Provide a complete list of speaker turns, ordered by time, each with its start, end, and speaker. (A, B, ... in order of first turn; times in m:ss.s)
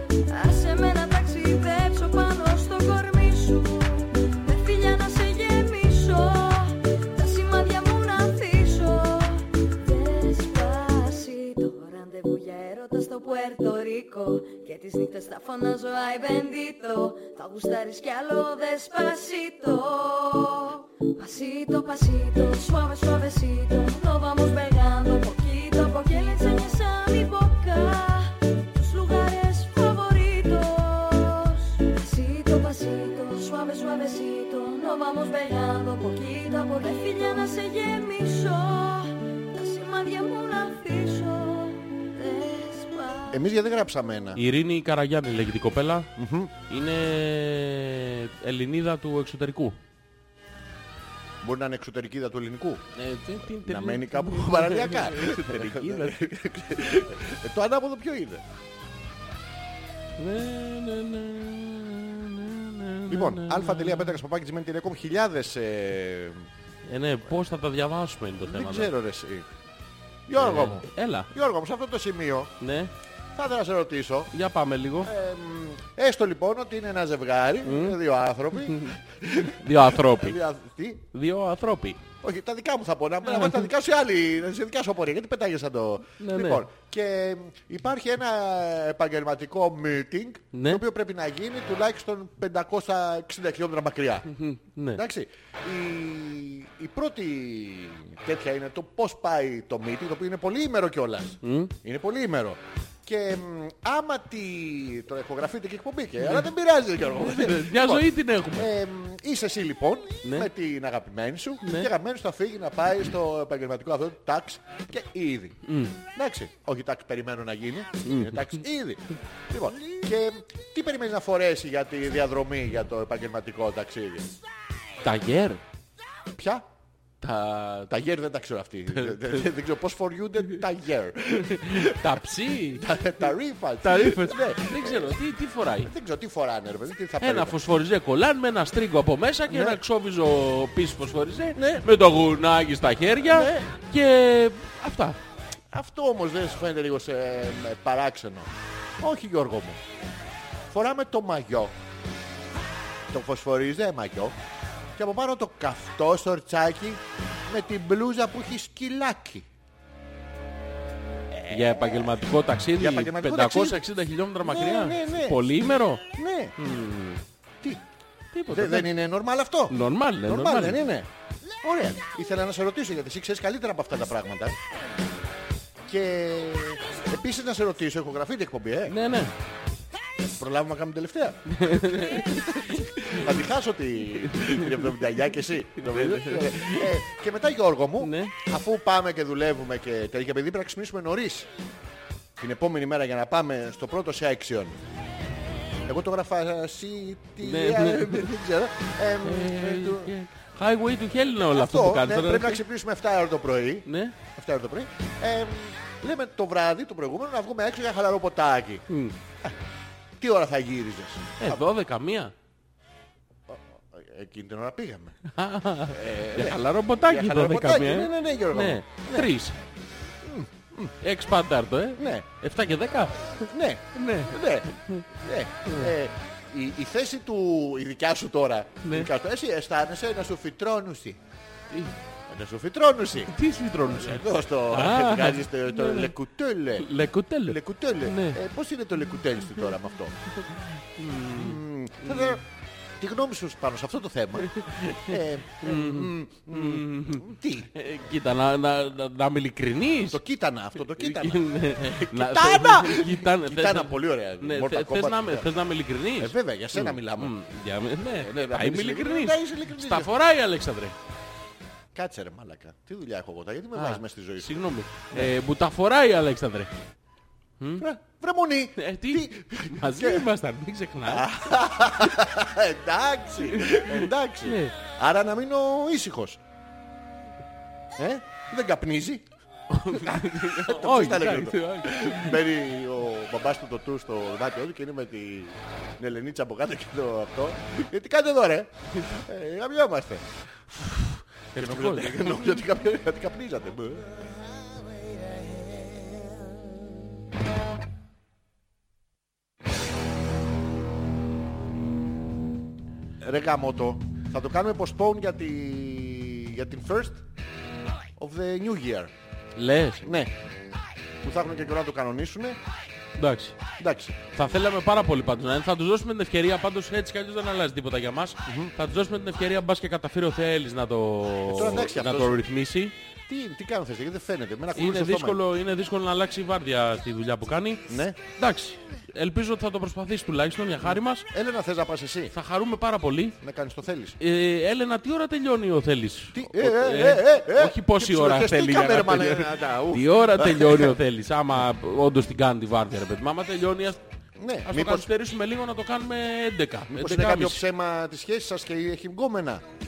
0:00.3-0:43.4 A
0:43.3-0:44.4 B
0:44.4-0:46.1 C
0:46.2-0:46.5 B
0:46.7-0:49.8 C
0:51.4-0:52.8 B
0:53.0-0:56.3 C
0:53.6-0:58.4 B
1:00.2-1:04.2 C
1:03.1-1:06.4 B
1:06.9-1:08.9 C
1:08.4-1:09.5 B
1:10.3-1:12.5 B
1:10.4-1:11.3 C
1:12.6-1:12.9 C
1:13.4-1:14.3 B
1:14.3-1:15.1 C
1:15.0-1:21.0 B
1:17.6-1:18.0 C
1:18.6-1:20.4 C
1:21.1-1:22.0 C
1:22.2-1:34.3 B
1:23.2-1:23.7 C
1:26.2-1:26.6 C
1:30.5-1:30.8 C
1:34.3-1:35.0 C
1:34.9-2:04.3 B
1:41.4-1:41.7 C
1:47.2-1:48.7 C
1:50.2-1:50.5 C
1:51.6-1:51.9 C
1:55.6-1:56.0 C
1:58.0-1:58.6 C
2:05.0-2:05.6 C
2:06.3-2:06.6 B
2:07.2-2:07.9 C
2:07.9-2:12.1 B
2:08.9-2:09.5 C
2:11.4-2:12.8 C
2:12.8-2:15.2 B
2:13.8-2:15.9 C
2:15.8-2:17.6 B
2:17.2-2:25.2 C
2:19.5-2:19.8 B
2:21.6-2:21.9 B
2:23.3-2:23.7 B
2:25.7-2:29.8 B
2:30.7-2:31.7 B
2:33.1-2:34.4 B
2:35.0-2:39.4 B
2:41.3-2:42.2 B
2:41.5-2:46.0 C
2:42.8-2:43.8 B
2:44.4-2:45.4 B
2:46.1-2:46.5 B
2:46.6-2:47.2 C
2:48.3-2:48.9 C
2:48.5-2:51.1 B
2:49.7-2:50.8 C
2:51.6-2:54.6 B
2:55.9-2:59.0 B
2:58.9-2:59.3 C
3:00.2-3:02.4 B
3:01.5-3:03.3 C
3:03.0-3:11.5 B
3:04.2-3:05.0 C
3:05.7-3:06.9 C
3:08.0-3:08.4 C
3:12.4-3:14.8 B
3:15.9-3:20.1 B
3:17.4-3:18.3 C
3:19.2-3:22.6 C
3:21.5-3:28.8 B
3:23.9-3:24.1 C
3:28.9-3:29.1 C
3:30.2-3:31.6 B
3:31.4-3:32.3 C
3:33.5-3:35.1 B
3:35.3-3:39.6 C
3:35.9-3:39.3 B
3:40.2-3:40.9 B
3:41.0-3:45.0 C
3:42.0-3:42.3 B
3:43.5-3:51.2 B
3:45.7-3:45.9 C
3:48.8-3:49.1 C
3:52.3-4:00.2 B
3:53.3-3:56.1 C
3:56.8-3:58.4 C
4:00.5-4:02.4 C
4:01.3-4:02.4 B
4:03.0-4:07.7 B
4:04.5-4:10.2 C
4:10.1-4:15.5 B
4:11.0-4:21.0 C
4:16.2-4:17.4 B
4:18.2-4:20.1 B
4:22.0-4:25.3 B
4:23.7-4:26.7 C
4:27.6-4:27.9 C
4:27.8-4:30.3 B
4:28.8-4:31.3 C
4:31.1-4:36.4 B
4:33.4-4:34.7 C
4:38.0-4:39.2 B
4:39.7-4:42.4 C
4:39.9-4:50.3 B
4:50.9-4:52.7 C
4:51.6-4:56.9 B
5:03.2-5:07.2 B
5:08.2-5:09.1 B
5:09.6-5:10.1 C
5:10.0-5:10.3 B
5:11.2-5:12.6 B
5:13.2-5:13.6 C
5:13.8-5:14.2 B
5:14.3-5:22.9 C
5:18.4-5:18.7 B
5:21.5-5:22.4 B
5:23.3-5:25.4 B
5:24.7-5:31.3 C
5:27.9-5:28.2 B
5:31.3-5:32.3 B
5:32.3-5:33.4 C
5:33.4-5:34.2 B
5:34.2-5:44.0 C
5:36.3-5:41.0 B
5:44.4-5:45.1 B
5:44.6-5:47.6 C
5:46.9-5:49.6 B